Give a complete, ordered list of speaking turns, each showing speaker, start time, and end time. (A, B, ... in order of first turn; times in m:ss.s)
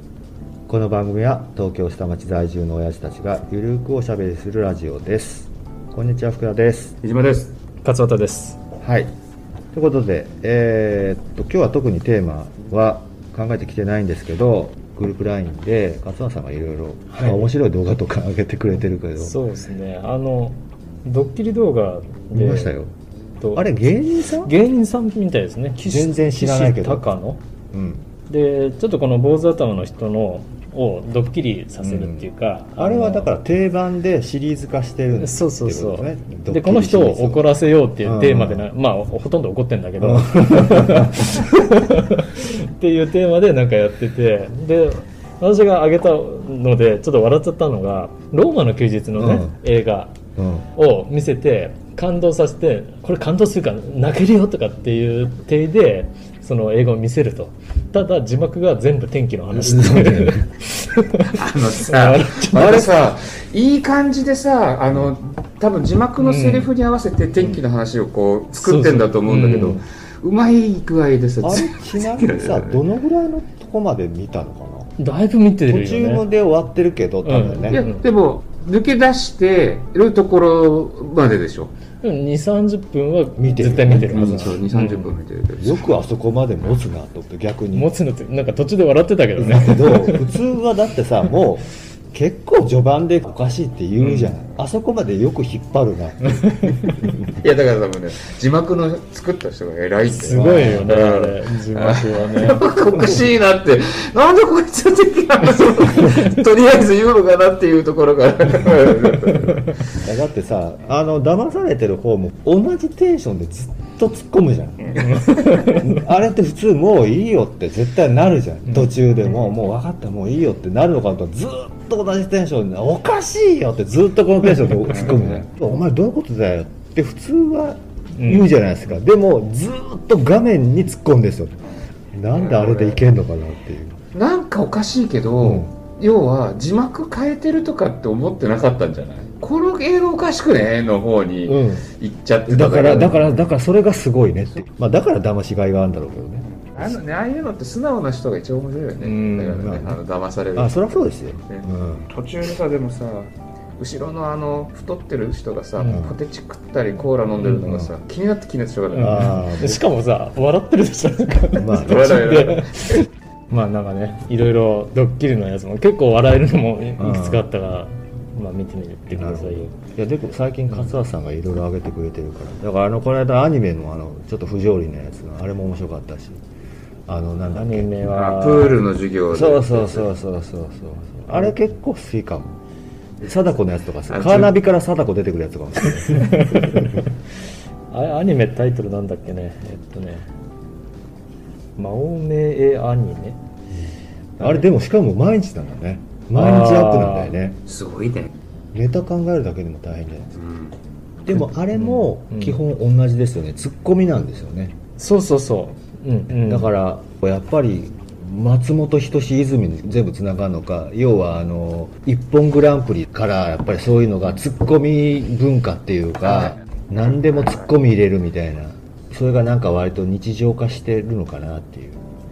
0:00.7-0:06.9 A
0:07.0-0:07.5 B
0:07.8-0:08.6 C
0:08.8-0:09.1 A
0:09.7-0:19.4 A
0:17.1-0:17.5 C
0:19.2-0:22.8 C
0:22.3-0:22.9 A
0:23.4-0:23.9 C
0:23.5-0:24.5 A
0:24.4-0:27.4 C
0:25.8-0:27.1 A
0:27.7-0:28.0 A
0:28.3-0:33.3 C
0:31.8-0:37.5 A
0:35.2-0:50.1 C
0:38.0-0:38.7 A
0:40.0-0:41.4 A
0:49.2-0:49.6 A
0:50.4-0:50.7 A
0:50.7-1:03.0 C
0:59.5-1:00.6 A
1:01.3-1:12.8 B
1:02.5-1:02.9 A
1:06.2-1:06.7 C
1:08.5-1:09.8 C
1:11.4-1:15.0 A
1:15.0-1:16.2 C
1:15.7-1:17.8 A
1:17.2-1:18.0 C
1:17.7-1:21.7 B
1:22.0-1:25.2 C
1:23.4-1:24.6 A
1:23.9-1:25.9 B
1:25.6-1:27.9 A
1:27.7-1:30.3 C
1:29.4-1:37.2 A
1:34.0-1:34.3 C
1:36.5-1:36.9 C
1:37.3-1:49.9 B
1:40.0-1:42.6 C
1:40.2-1:40.9 A
1:50.0-2:11.6 A
1:55.0-1:55.5 B
1:55.1-1:55.9 C
2:04.9-2:05.4 B
2:08.2-2:08.5 C
2:12.1-2:14.0 A
2:12.3-2:13.1 B
2:14.1-2:23.4 B
2:15.4-2:15.7 A
2:21.5-2:21.9 A
2:22.5-2:26.9 A
2:26.6-2:39.4 B
2:29.0-2:29.8 C
2:29.4-2:29.9 A
2:30.6-2:32.1 A
2:35.8-2:36.0 C
2:35.9-2:36.1 A
2:37.5-2:37.9 A
2:38.9-2:49.7 C
2:39.0-2:39.8 A
2:41.6-2:42.2 A
2:41.8-2:43.0 B
2:47.0-2:47.5 A
2:49.1-2:56.4 A
2:57.1-2:57.9 A
2:57.5-2:58.8 C
2:58.1-3:00.1 B
2:59.3-3:02.6 A
3:01.3-3:01.5 C
3:03.2-3:06.8 A
3:04.1-3:04.6 B
3:06.0-3:07.1 C
3:07.9-3:10.3 C
3:11.8-3:13.4 C
3:14.4-3:17.6 A
3:16.3-3:17.3 C
3:17.7-3:18.3 B
3:18.7-3:20.3 A
3:20.4-3:20.7 B
3:21.2-3:24.7 A
3:21.7-3:22.6 C
3:25.0-3:26.7 C
3:26.3-3:42.0 A
3:36.2-3:37.7 B